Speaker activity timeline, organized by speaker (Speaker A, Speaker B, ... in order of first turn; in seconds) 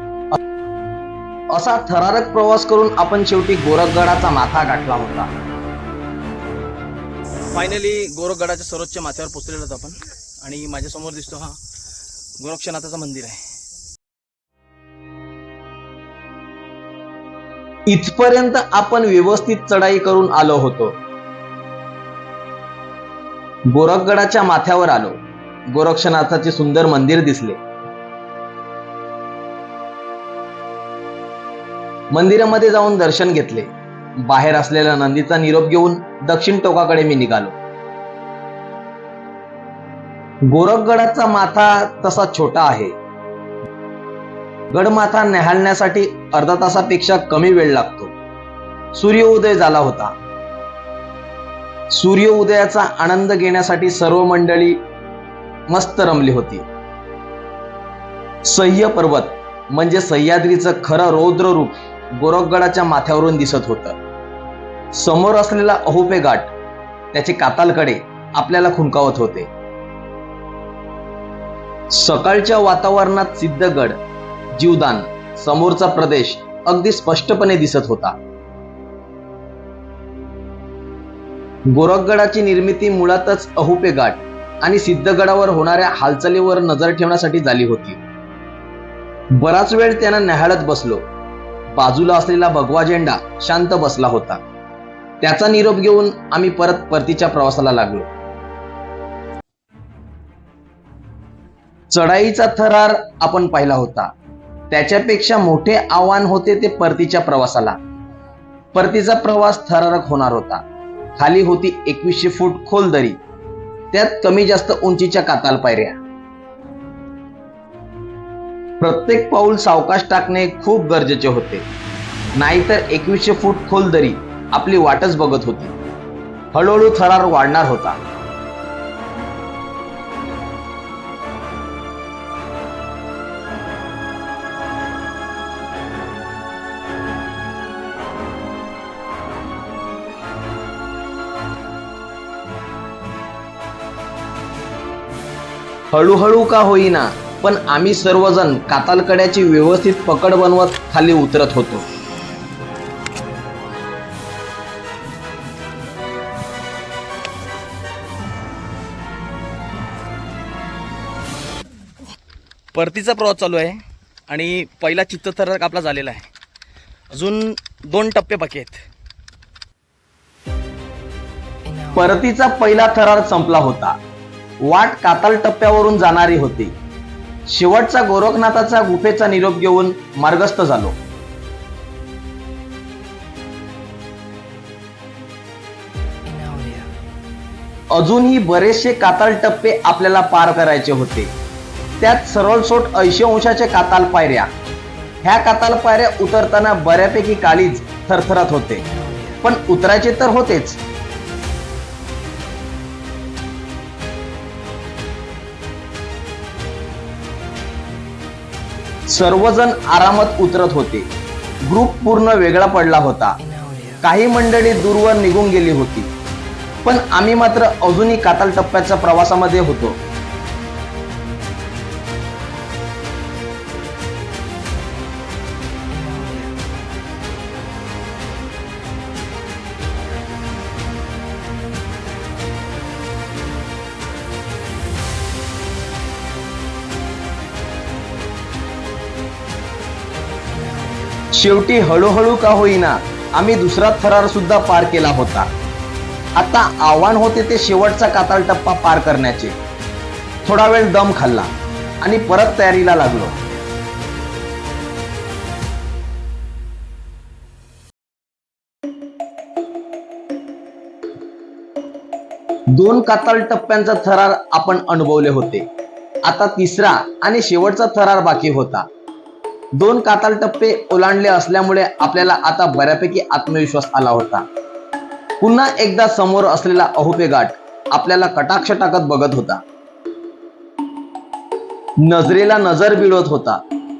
Speaker A: 1.5-5.3, 17.9-21.0, 23.7-27.6, 32.1-33.7, 34.2-37.5, 40.5-42.9, 44.7-48.1, 48.9-50.1, 51.9-54.8, 55.7-56.6, 58.5-64.0, 64.9-66.5, 67.1-69.5, 71.9-74.0, 74.5-78.2, 81.7-88.0, 89.4-91.0, 91.7-94.4, 95.2-98.1, 101.9-104.1, 104.7-107.8, 108.7-110.6, 111.2-113.2, 113.9-116.0, 118.8-121.6, 122.3-125.7, 126.5-128.0, 145.9-151.8, 171.9-174.0, 174.6-176.7, 177.5-180.9, 187.9-191.3, 192.0-194.5, 195.2-198.8, 199.4-200.8, 209.1-211.1, 211.7-213.4, 214.0-216.1, 216.8-220.0, 241.3-245.5, 246.3-249.6, 250.4-253.4, 262.7-265.7, 266.2-268.9, 269.8-274.4, 275.4-279.6, 282.0-283.6
Speaker B: 7.5-11.6, 12.4-13.4, 162.7-166.3, 167.1-168.8, 186.3-186.9, 199.0-199.3, 213.6-214.0, 226.0-226.4, 240.6-241.0